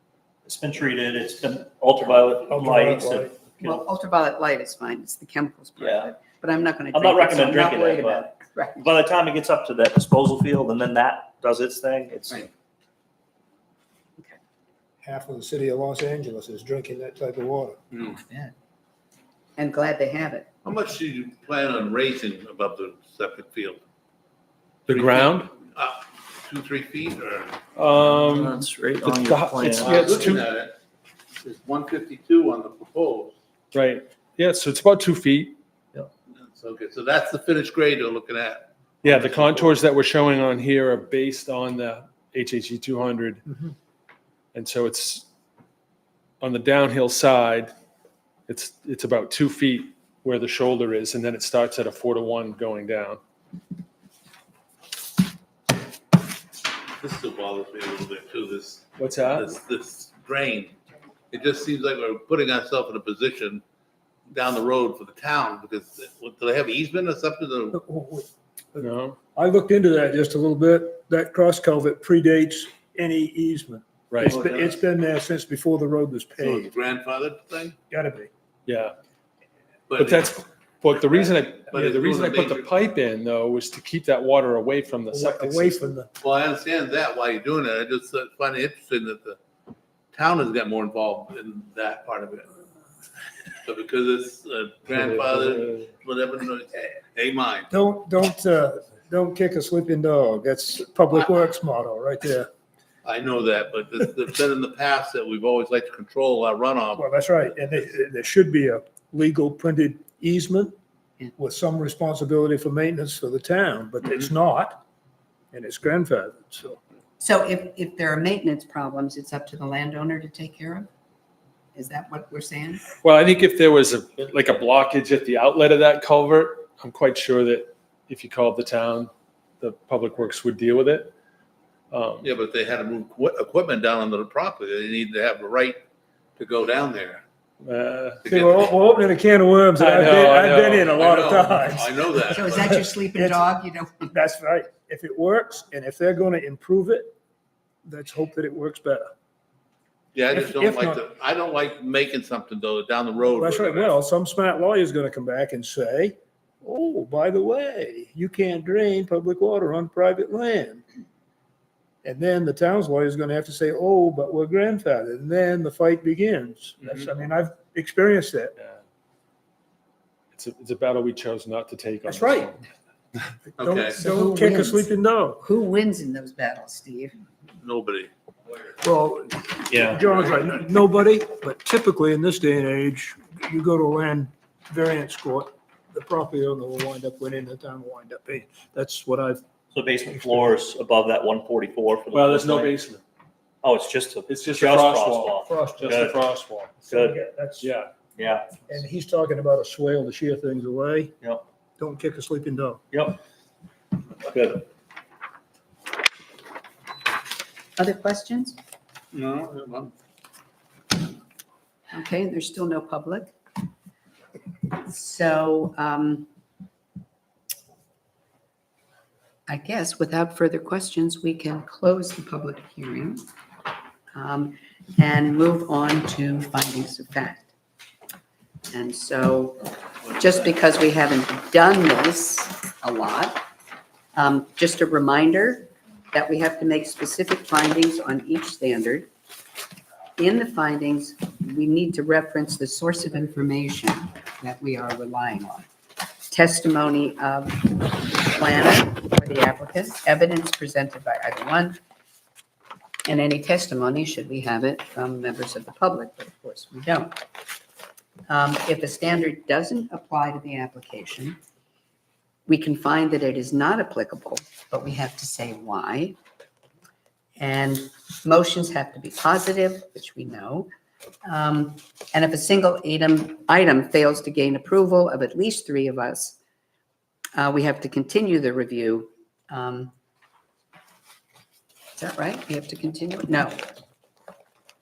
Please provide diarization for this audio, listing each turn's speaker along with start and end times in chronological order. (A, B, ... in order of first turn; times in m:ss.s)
0:00.4-0:03.3 A
0:02.5-0:03.3 B
0:03.6-0:08.9 C
0:06.9-0:12.5 A
0:15.0-0:17.8 B
0:17.9-0:18.2 D
0:19.6-0:20.5 C
0:20.6-0:23.8 D
0:24.9-0:25.5 E
0:24.9-0:27.6 D
0:27.7-0:30.4 E
0:28.3-0:30.0 A
0:29.8-0:30.8 D
0:31.4-0:33.3 D
0:33.7-0:35.6 E
0:36.4-0:39.8 D
0:39.0-0:43.4 E
0:44.5-0:45.2 E
0:46.4-0:47.7 E
0:48.5-0:53.2 E
0:57.0-1:00.7 D
0:59.0-0:59.5 E
1:01.3-1:03.6 D
1:04.3-1:07.8 D
1:07.7-1:16.7 B
1:08.8-1:09.2 E
1:14.1-1:14.4 E
1:16.4-1:17.8 D
1:17.9-1:18.3 B
1:18.7-1:18.9 E
1:19.9-1:20.4 D
1:20.0-1:25.9 E
1:20.9-1:22.7 D
1:25.1-1:26.1 B
1:26.2-1:29.4 D
1:30.1-1:32.5 D
1:33.6-1:37.7 D
1:35.0-1:35.9 E
1:37.7-1:42.5 B
1:43.0-1:47.0 D
1:47.0-1:50.7 B
1:51.4-1:54.8 B
1:55.5-1:56.8 B
1:57.2-2:00.9 C
2:01.7-2:02.8 C
2:03.0-2:11.1 E
2:11.9-2:12.3 E
2:12.2-2:15.8 D
2:16.4-2:17.2 D
2:17.6-2:18.2 E
2:18.2-2:18.7 D
2:18.2-2:23.5 B
2:19.8-2:21.0 E
2:20.9-2:22.8 D
2:22.3-2:24.1 C
2:24.0-2:27.1 B
2:27.8-2:29.1 B
2:30.1-2:33.9 D
2:30.3-2:31.0 B
2:33.4-2:40.8 B
2:42.0-2:48.5 B
2:50.3-2:52.6 E
2:52.0-2:52.5 B
2:53.4-2:55.4 B
2:53.6-2:54.0 D
2:53.9-2:54.9 C
2:55.4-2:57.2 C
2:57.6-2:58.1 D
2:58.8-3:09.4 B
3:09.7-3:12.7 A
3:10.1-3:10.6 B
3:12.1-3:13.0 E
3:13.6-3:16.1 A
3:14.3-3:16.9 E
3:15.4-3:16.2 B
3:16.9-3:17.7 B
3:17.6-3:17.9 E
3:18.2-3:18.6 A
3:18.7-3:21.1 B
3:21.2-3:21.4 A
3:21.8-3:22.8 B
3:22.9-3:23.2 A
3:24.2-3:24.6 A
3:27.8-3:28.6 C
3:29.1-3:29.9 D
3:31.9-3:33.3 C
3:34.7-3:36.3 C
3:39.5-3:43.2 C
3:44.1-3:47.5 C
3:48.7-3:53.4 C
3:54.1-3:59.1 C
4:00.2-4:05.7 C
4:06.3-4:11.8 C
4:13.0-4:17.2 C
4:18.3-4:21.4 C
4:22.5-4:26.2 C
4:27.4-4:30.7 C
4:31.2-4:36.4 C
4:37.4-4:39.9 C
4:42.0-4:43.6 C